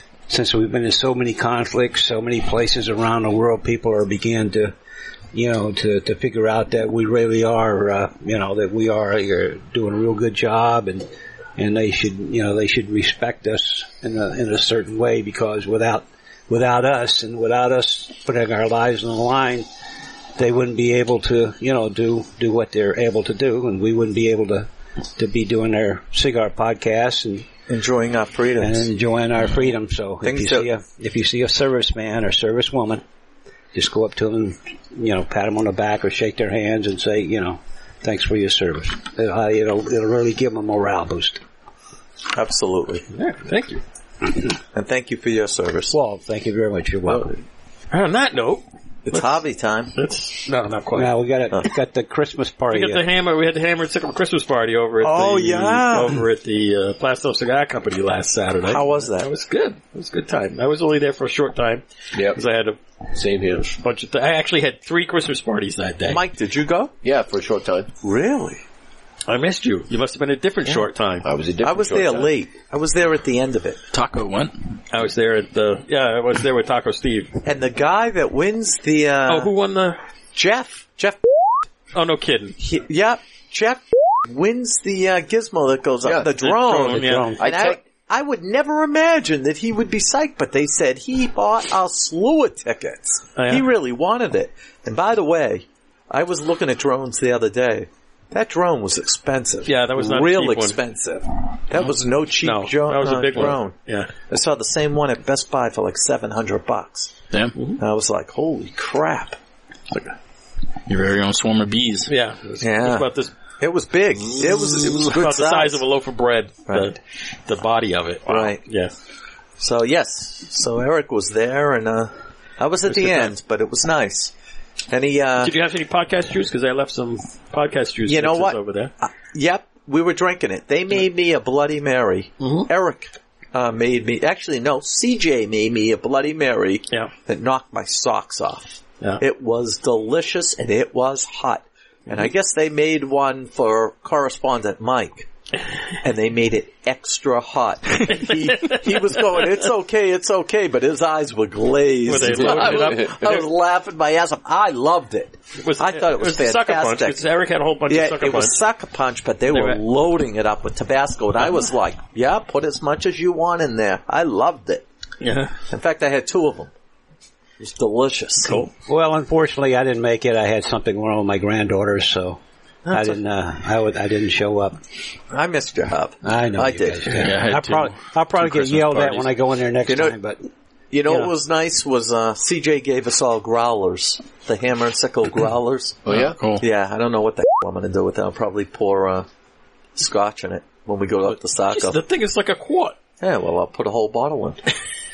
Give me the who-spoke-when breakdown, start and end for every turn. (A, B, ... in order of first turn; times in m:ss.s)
0:00.3-0:04.7 A
0:05.3-0:19.6 A
0:20.4-0:27.5 A
0:27.7-0:28.9 B
0:28.6-0:33.0 A
0:30.2-0:30.7 B
0:33.7-0:41.4 A
0:42.3-0:43.0 B
0:43.1-0:43.8 C
0:44.7-0:45.9 B
0:45.9-0:47.4 A
0:47.9-0:49.4 C
0:49.0-0:49.9 B
0:49.9-0:51.1 C
0:50.9-0:53.0 A
0:52.7-1:02.8 C
0:55.0-0:56.2 B
0:58.6-0:59.3 B
1:02.1-1:02.4 D
1:03.1-1:03.8 D
1:03.8-1:06.2 C
1:06.0-1:06.9 B
1:07.0-1:07.9 D
1:08.0-1:08.6 B
1:09.3-1:11.2 C
1:11.2-1:12.3 D
1:11.6-1:13.8 B
1:13.9-1:14.6 E
1:14.9-1:17.3 C
1:17.4-1:19.5 B
1:19.3-1:20.0 C
1:20.3-1:21.2 B
1:21.9-1:22.6 C
1:22.6-1:43.7 B
1:26.0-1:26.3 D
1:26.4-1:27.4 C
1:27.0-1:27.4 A
1:27.4-1:27.8 D
1:33.4-1:33.6 C
1:39.7-1:40.8 C
1:42.4-1:44.1 C
1:44.3-1:47.1 B
1:47.8-1:49.4 B
1:50.9-1:52.1 E
1:52.1-1:53.3 C
1:52.6-1:53.1 B
1:53.6-1:55.8 B
1:54.7-1:58.9 C
1:56.7-1:56.9 B
1:58.3-1:58.6 B
1:59.6-2:04.3 B
2:02.9-2:03.3 C
2:04.9-2:05.5 B
2:05.4-2:08.9 C
2:08.1-2:25.3 B
2:12.4-2:12.7 C
2:26.0-2:37.2 B
2:28.0-2:29.5 C
2:32.0-2:33.5 C
2:32.2-2:33.2 D
2:35.6-2:38.6 C
2:37.9-2:44.8 B
2:39.5-2:39.8 C
2:45.2-2:45.5 C
2:45.7-2:46.7 B
2:47.6-2:48.6 B
2:48.4-2:48.7 C
2:48.9-2:52.4 A
2:52.9-2:54.8 A
2:55.3-2:57.3 B
2:56.2-3:00.4 A
2:57.2-2:59.3 E
2:59.8-3:00.2 B
3:00.9-3:06.0 B
3:06.0-3:06.4 D
3:06.1-3:06.6 E
3:06.6-3:09.3 B
3:10.0-3:12.0 B
3:11.7-3:13.0 C
3:13.2-3:14.6 B